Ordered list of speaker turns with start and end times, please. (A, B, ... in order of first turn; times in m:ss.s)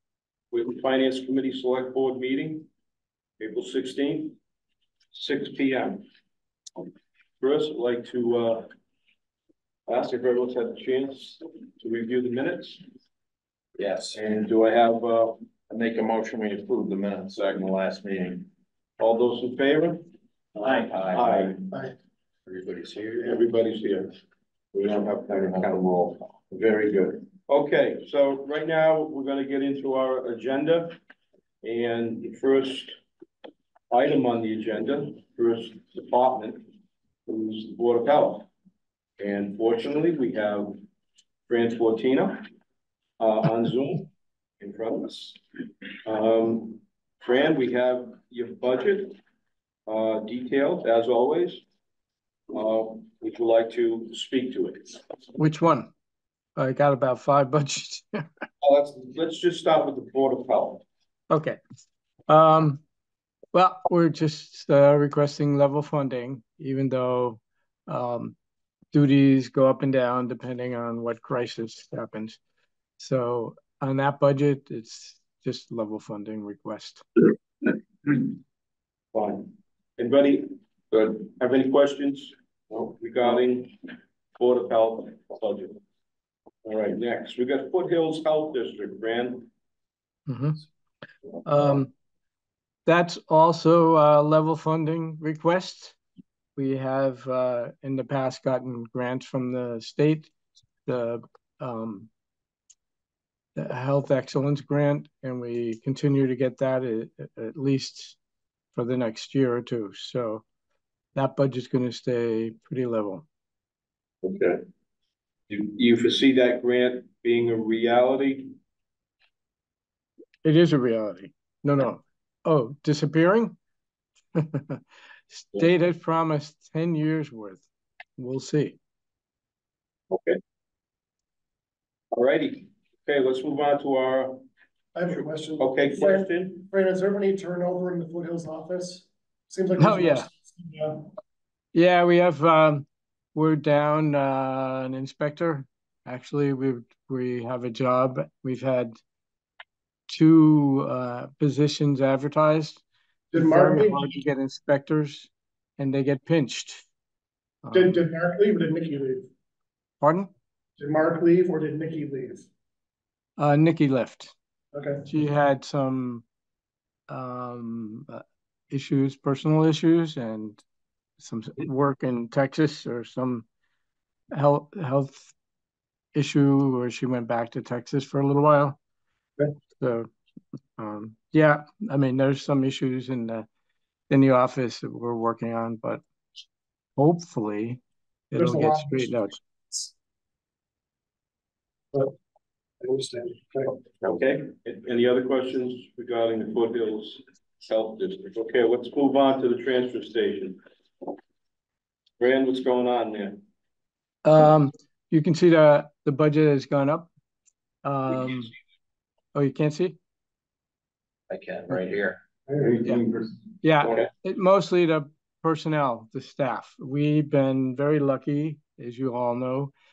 0:00.5-0:02.7 A
0:03.4-0:04.4 A
0:05.1-0:06.0 A
0:07.4-0:08.7 A
0:09.9-0:12.8 A
0:13.8-0:14.2 B
0:14.1-0:15.4 A
0:15.7-0:18.5 B
0:19.0-0:20.0 A
0:20.6-0:21.6 A
0:20.7-0:21.4 B
0:22.5-0:24.2 A
0:24.7-0:31.0 A
0:31.6-0:33.0 A
0:33.9-0:36.7 A
0:37.2-0:38.5 A
0:39.2-0:40.8 A
0:41.5-0:42.4 A
0:43.2-0:44.1 A
0:44.6-0:45.4 A
0:46.0-0:49.2 A
0:49.9-0:51.6 A
0:52.5-0:55.0 A
0:55.4-0:55.9 C
0:56.6-0:58.3 C
0:58.6-1:00.8 A
1:01.3-1:01.6 C
1:02.3-1:02.8 C
1:03.5-1:08.4 C
1:08.9-1:12.4 C
1:13.0-1:17.0 C
1:19.1-1:23.8 A
1:24.4-1:25.8 A
1:26.6-1:29.5 A
1:30.3-1:30.6 C
1:31.4-1:31.9 C
1:32.8-1:36.0 C
1:36.6-1:40.3 C
1:40.8-1:42.1 C
1:43.5-1:48.2 C
1:48.7-1:50.4 C
1:51.1-1:53.2 C
1:54.3-1:54.6 A
1:55.5-1:58.5 A
2:00.4-2:03.6 C
2:04.3-2:07.6 C
2:08.2-2:08.8 C
2:10.1-2:10.4 A
2:12.1-2:14.4 A
2:14.9-2:21.1 D
2:15.1-2:16.6 A
2:19.8-2:20.3 C
2:21.7-2:29.0 C
2:30.1-2:32.8 C
2:33.3-2:34.1 D
2:33.3-2:36.8 C
2:37.6-2:38.1 C
2:37.7-2:39.3 D
2:40.0-2:40.3 C
2:40.8-2:42.5 D
2:43.4-2:44.3 C
2:44.7-2:45.0 D
2:45.0-2:46.2 C
2:47.1-2:50.6 C
2:51.2-2:53.4 C
2:54.3-2:55.3 C
2:56.1-2:58.8 C
2:59.8-3:00.1 C
3:00.8-3:03.5 C
3:04.1-3:06.0 C
3:07.0-3:09.4 C
3:08.3-3:09.1 D
3:12.8-3:13.8 D
3:14.0-3:20.6 A
3:22.2-3:23.4 A
3:24.2-3:27.1 C
3:27.8-3:28.5 C
3:29.3-3:30.0 C
3:31.3-3:32.2 B
3:32.7-3:32.9 A
3:33.6-3:39.7 C
3:33.8-3:34.1 A